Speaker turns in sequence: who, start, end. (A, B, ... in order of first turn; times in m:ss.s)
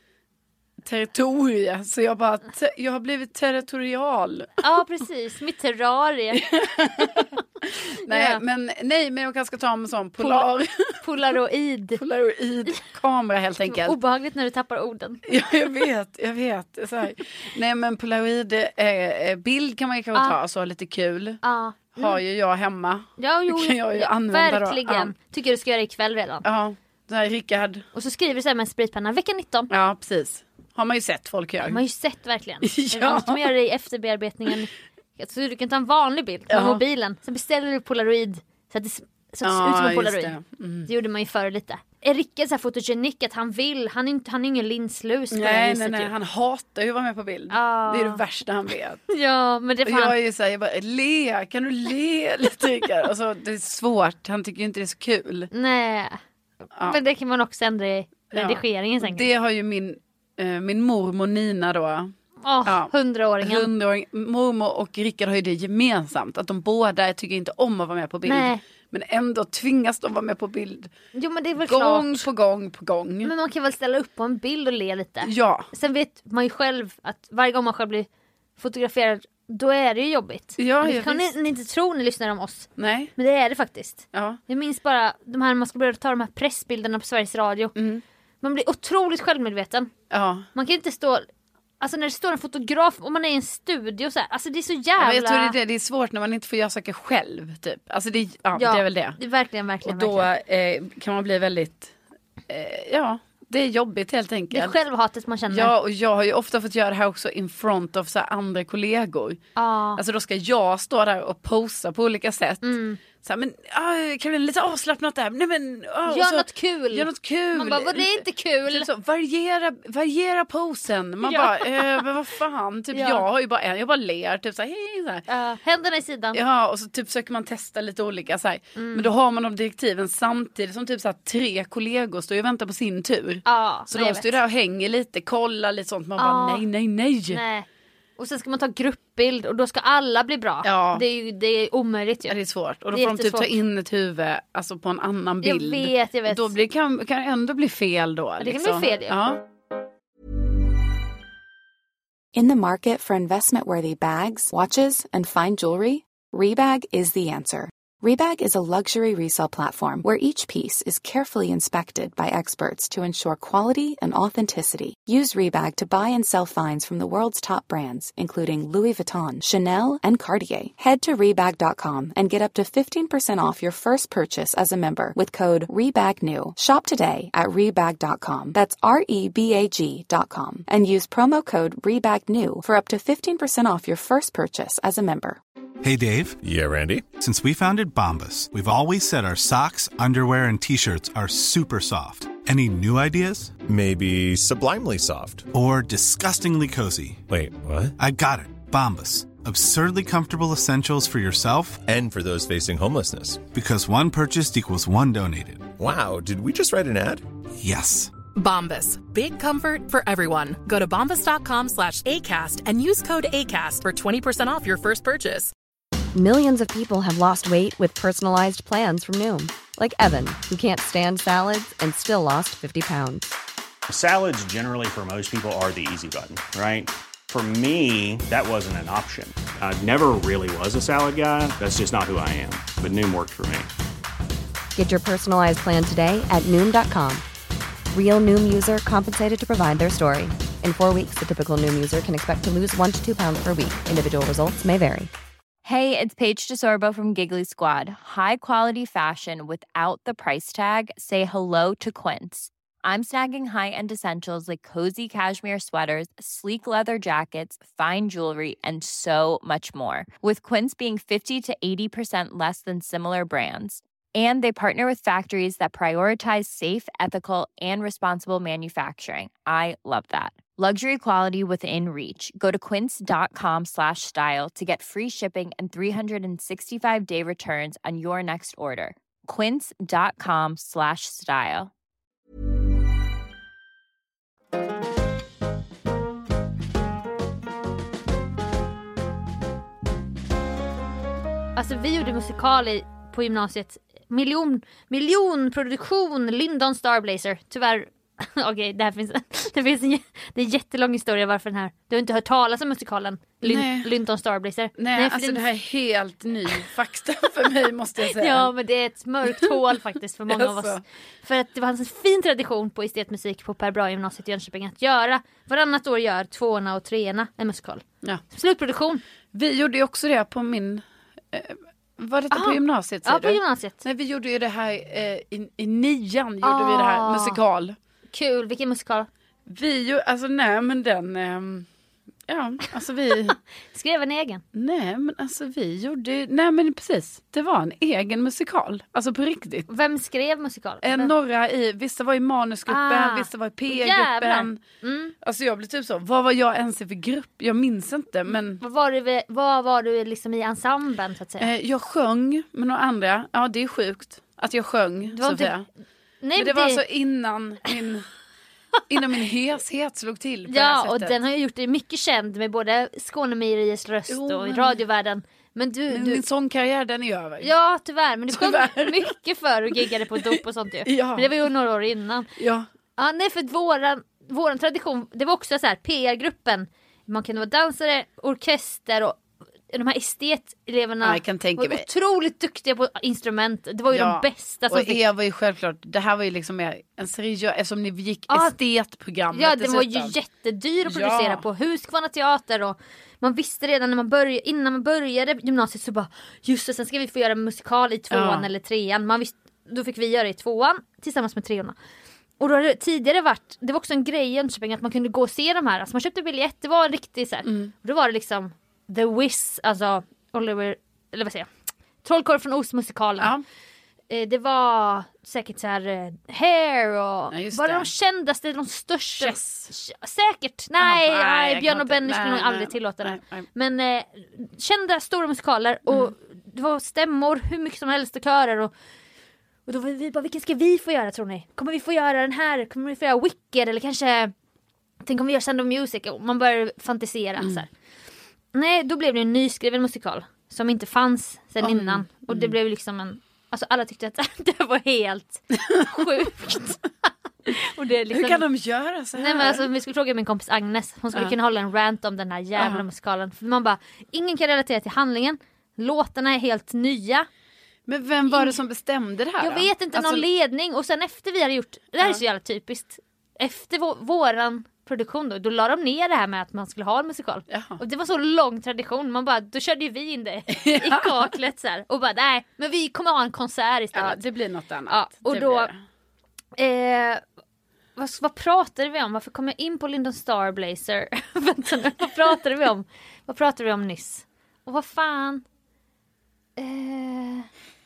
0:00.8-0:04.6 A
0:04.6-0:06.4 B
0:06.3-0:11.0 A
0:08.1-0:08.4 B
0:10.2-0:10.5 B
0:11.0-0:12.0 B
0:12.0-0:14.0 A
0:13.7-0:15.2 B
0:15.3-0:21.4 A
0:21.4-0:22.2 B
0:21.9-0:25.1 A
0:23.2-0:26.4 B
0:26.4-0:27.8 A
0:27.9-0:29.7 B
0:29.7-0:31.8 A
0:31.6-0:40.3 B
0:32.6-0:33.5 A
0:36.5-0:36.8 A
0:39.4-0:40.9 A
0:40.9-0:46.1 B
0:45.3-0:49.0 A
0:47.5-0:48.2 B
0:49.1-0:50.2 B
0:49.8-0:55.5 A
0:55.5-0:56.2 B
0:56.8-0:59.3 B
0:58.3-1:02.1 A
1:02.4-1:03.7 B
1:02.6-1:10.9 A
1:08.2-1:08.6 B
1:11.1-1:12.2 B
1:11.6-1:13.3 A
1:13.2-1:27.7 B
1:15.2-1:15.7 A
1:20.6-1:21.3 A
1:22.8-1:23.1 A
1:24.1-1:24.4 A
1:27.7-1:28.0 A
1:28.4-1:29.9 B
1:30.1-1:30.5 A
1:30.5-1:31.2 B
1:31.8-1:35.6 B
1:35.0-1:39.2 A
1:38.5-1:40.3 B
1:39.8-1:41.9 A
1:42.5-1:44.8 A
1:44.5-1:45.7 B
1:45.5-1:49.4 A
1:49.6-1:50.0 B
1:50.0-2:05.2 A
1:52.6-1:53.0 B
1:56.1-1:58.9 B
2:01.2-2:02.1 B
2:02.9-2:03.2 B
2:05.3-2:06.4 B
2:06.3-2:17.4 A
2:08.8-2:09.1 B
2:13.4-2:14.4 B
2:16.2-2:16.6 B
2:17.3-2:17.7 B
2:18.2-2:22.3 B
2:20.6-2:21.0 A
2:22.3-2:29.4 A
2:22.9-2:23.6 B
2:25.4-2:26.5 B
2:28.4-2:29.2 B
2:32.3-3:05.4 C
3:05.8-3:06.4 D
3:06.4-3:07.0 E
3:07.1-3:13.5 D
3:13.7-3:15.4 E
3:15.5-3:17.2 D
3:17.3-3:17.9 E
3:18.0-3:21.8 D
3:21.8-3:23.4 E
3:23.4-3:25.7 D
3:25.8-3:27.2 E
3:27.6-3:28.1 D
3:28.3-3:35.5 F
3:36.1-3:43.3 G
3:43.9-3:53.7 H
3:54.7-3:57.2 G
3:57.9-4:05.1 G
4:05.6-4:41.7 I
4:51.6-5:05.4 B
5:03.4-5:03.9 A
5:04.8-5:08.5 A
5:08.1-5:19.0 B
5:09.3-5:09.5 A
5:10.3-5:10.8 A
5:19.3-5:27.8 A
5:22.3-5:23.8 B
5:26.4-5:27.4 B
5:28.1-5:29.1 B
5:29.5-5:31.7 A
5:32.3-5:33.4 A
5:33.7-5:34.4 B
5:34.5-5:39.7 A
5:39.7-5:41.1 B
5:40.8-5:44.6 A
5:42.7-5:45.1 B
5:45.2-5:48.6 A
5:48.6-5:51.5 B
5:51.4-5:55.6 A
5:55.1-5:55.5 B
5:56.2-5:56.8 B
5:56.4-5:58.1 A
5:58.9-6:01.2 A
6:00.5-6:06.2 B
6:04.1-6:04.8 A
6:05.9-6:07.5 A
6:07.4-6:12.3 B
6:08.3-6:09.1 A
6:10.1-6:11.4 A
6:12.4-6:12.6 A
6:13.0-6:19.2 B
6:19.7-6:25.0 B
6:21.0-6:21.9 A
6:23.9-6:30.1 A
6:28.3-6:28.5 B
6:29.3-6:41.7 B
6:30.8-6:31.4 A
6:38.1-6:38.4 A
6:42.4-6:51.5 B
6:47.4-6:47.7 A
6:52.0-6:53.3 B
6:54.1-7:08.7 B
6:57.3-6:57.9 A
6:59.2-6:59.7 A
7:00.8-7:03.4 A
7:05.9-7:06.1 A
7:09.6-7:14.3 B
7:15.0-7:17.7 B
7:18.5-7:26.8 B
7:21.6-7:22.5 A
7:25.5-7:26.3 A
7:27.5-7:28.4 B
7:28.1-7:29.7 A
7:29.2-7:37.3 B
7:32.6-7:32.8 A
7:37.9-7:40.2 A
7:38.3-7:38.6 B
7:39.4-7:54.2 B
7:47.5-7:47.8 A
7:50.5-7:51.3 A
7:53.9-7:55.8 A
7:54.9-7:55.7 B
7:56.6-7:57.2 B
7:58.0-8:05.4 B
8:06.6-8:07.5 B